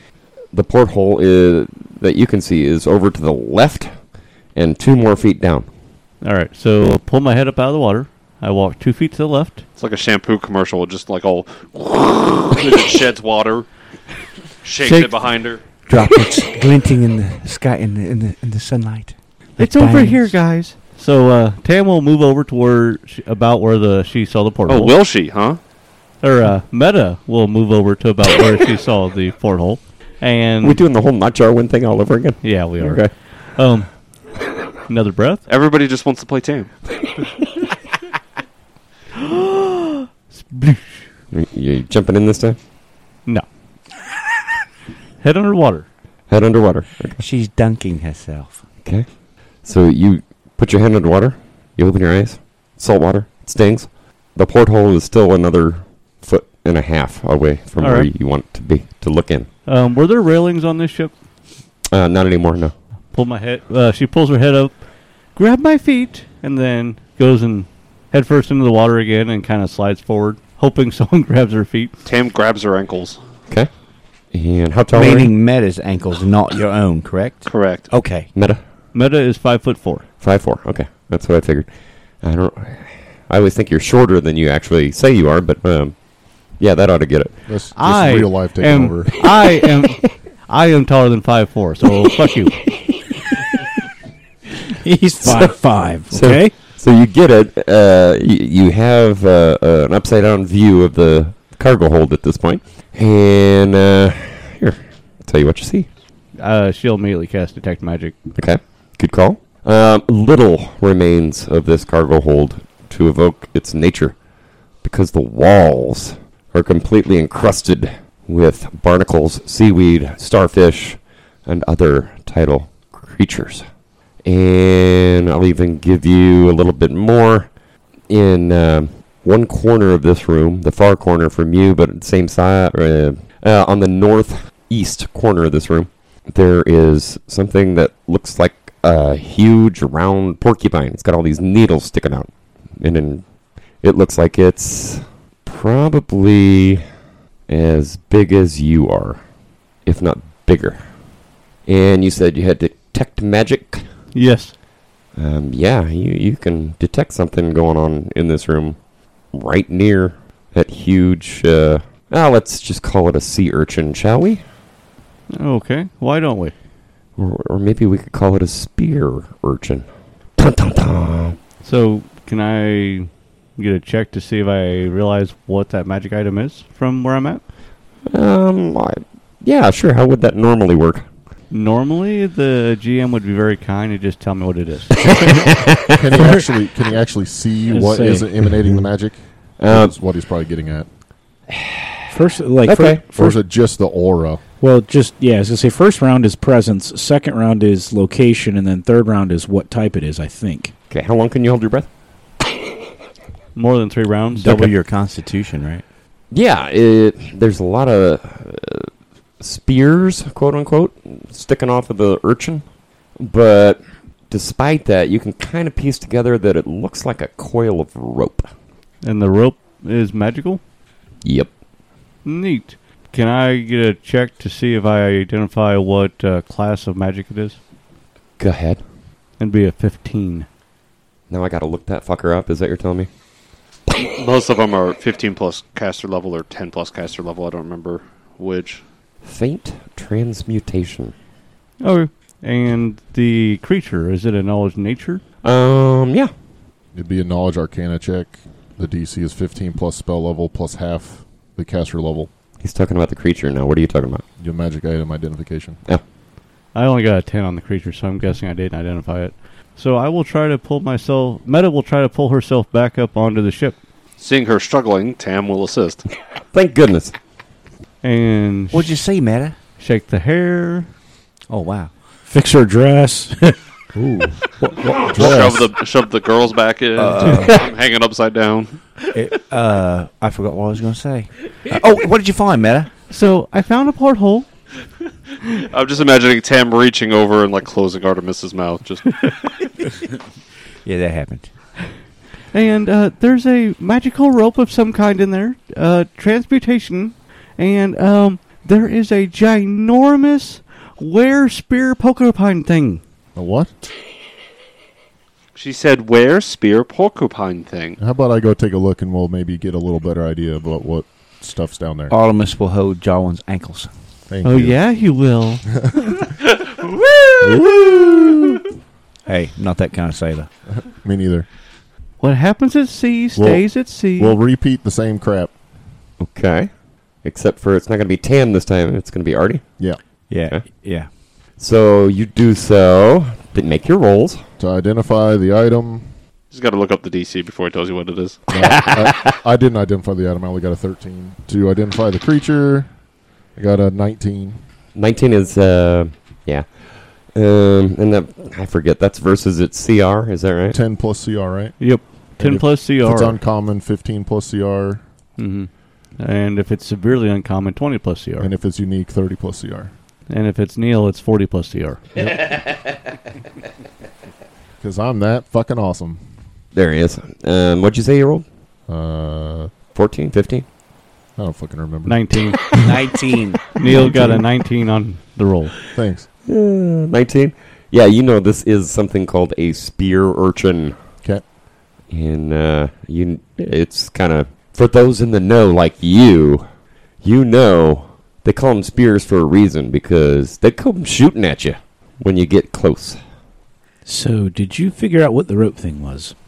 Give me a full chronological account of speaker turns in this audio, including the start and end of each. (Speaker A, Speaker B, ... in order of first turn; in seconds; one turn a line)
Speaker A: 0.5-5.7
Speaker B: 6.2-9.6
Speaker C: 9.8-13.7
Speaker C: 14.6-15.6
Speaker D: 14.8-15.2
Speaker D: 15.7-20.4
Speaker B: 19.6-25.0
Speaker C: 24.7-25.6
Speaker B: 26.2-30.8
Speaker A: 30.6-33.1
Speaker B: 32.4-34.1
Speaker B: 34.9-35.5
Speaker C: 35.5-36.7
Speaker B: 39.2-41.1
Speaker A: 41.3-42.6
Speaker B: 45.2-45.9
Speaker A: 46.3-47.2
Speaker D: 47.2-48.6
Speaker A: 49.6-59.5
Speaker B: 57.8-58.1
Speaker B: 59.6-61.1
Speaker A: 61.9-62.7
Speaker B: 63.1-71.9
Speaker C: 72.0-73.2
Speaker A: 74.3-75.3
Speaker D: 74.9-78.3
Speaker C: 77.5-77.9
Speaker A: 78.3-78.6
Speaker B: 78.9-80.1
Speaker A: 80.2-87.6
Speaker E: 87.5-89.1
Speaker B: 87.7-92.6
Speaker F: 94.8-96.6
Speaker A: 95.2-105.9
Speaker B: 106.4-108.2
Speaker A: 108.3-114.2
Speaker A: 114.8-123.6
Speaker A: 124.2-127.5
Speaker A: 128.1-146.8
Speaker A: 147.5-149.2
Speaker A: 149.8-151.0
Speaker A: 151.6-153.9
Speaker B: 154.1-154.5
Speaker A: 155.2-164.4
Speaker B: 165.3-166.5
Speaker A: 167.2-171.4
Speaker B: 171.6-177.4
Speaker A: 178.1-181.1
Speaker B: 181.5-185.5
Speaker A: 185.6-185.9
Speaker E: 185.9-190.9
Speaker F: 187.7-188.8
Speaker A: 189.6-189.9
Speaker A: 191.5-193.1
Speaker F: 192.1-193.4
Speaker E: 193.1-194.4
Speaker F: 194.6-200.7
Speaker A: 200.9-201.9
Speaker B: 203.5-204.7
Speaker D: 204.3-205.8
Speaker A: 206.3-212.6
Speaker A: 213.2-218.5
Speaker B: 219.0-220.6
Speaker A: 221.2-221.5
Speaker B: 222.2-227.6
Speaker A: 228.4-228.8
Speaker B: 229.4-230.5
Speaker A: 231.3-233.1
Speaker C: 233.9-238.8
Speaker A: 239.2-241.1
Speaker B: 241.8-245.2
Speaker A: 245.4-246.3
Speaker E: 246.9-252.3
Speaker A: 252.6-254.2
Speaker E: 254.4-255.8
Speaker B: 256.7-263.8
Speaker C: 264.2-266.1
Speaker A: 266.5-267.1
Speaker B: 268.0-268.9
Speaker D: 268.7-269.6
Speaker B: 269.8-270.9
Speaker D: 271.5-271.9
Speaker F: 272.3-273.6
Speaker D: 273.9-275.1
Speaker C: 275.1-278.8
Speaker E: 275.1-275.7
Speaker D: 276.9-277.6
Speaker D: 279.1-282.9
Speaker B: 283.1-284.5
Speaker C: 285.6-289.5
Speaker D: 290.9-291.5
Speaker B: 292.5-303.0
Speaker E: 303.3-303.7
Speaker C: 305.5-308.0
Speaker E: 308.0-312.1
Speaker D: 312.1-313.9
Speaker E: 314.3-314.8
Speaker B: 314.4-315.6
Speaker E: 317.4-317.7
Speaker D: 319.3-320.5
Speaker E: 320.7-321.5
Speaker B: 322.2-324.4
Speaker E: 323.4-325.5
Speaker A: 326.2-326.7
Speaker A: 327.2-329.8
Speaker D: 330.3-331.1
Speaker A: 331.6-334.4
Speaker E: 334.6-336.1
Speaker C: 336.5-338.4
Speaker E: 338.5-342.9
Speaker A: 338.6-338.8
Speaker E: 343.6-344.6
Speaker A: 344.9-350.8
Speaker E: 350.7-355.0
Speaker B: 351.8-353.4
Speaker B: 355.4-358.5
Speaker E: 358.4-359.9
Speaker B: 360.3-362.0
Speaker E: 364.8-366.2
Speaker A: 366.7-368.4
Speaker E: 368.9-369.7
Speaker A: 369.9-370.6
Speaker E: 371.4-372.4
Speaker B: 372.0-372.6
Speaker D: 372.8-373.6
Speaker B: 373.7-375.7
Speaker E: 373.8-374.3
Speaker E: 375.9-376.3
Speaker A: 376.5-381.0
Speaker A: 382.1-386.6
Speaker A: 387.2-393.2
Speaker F: 394.0-396.3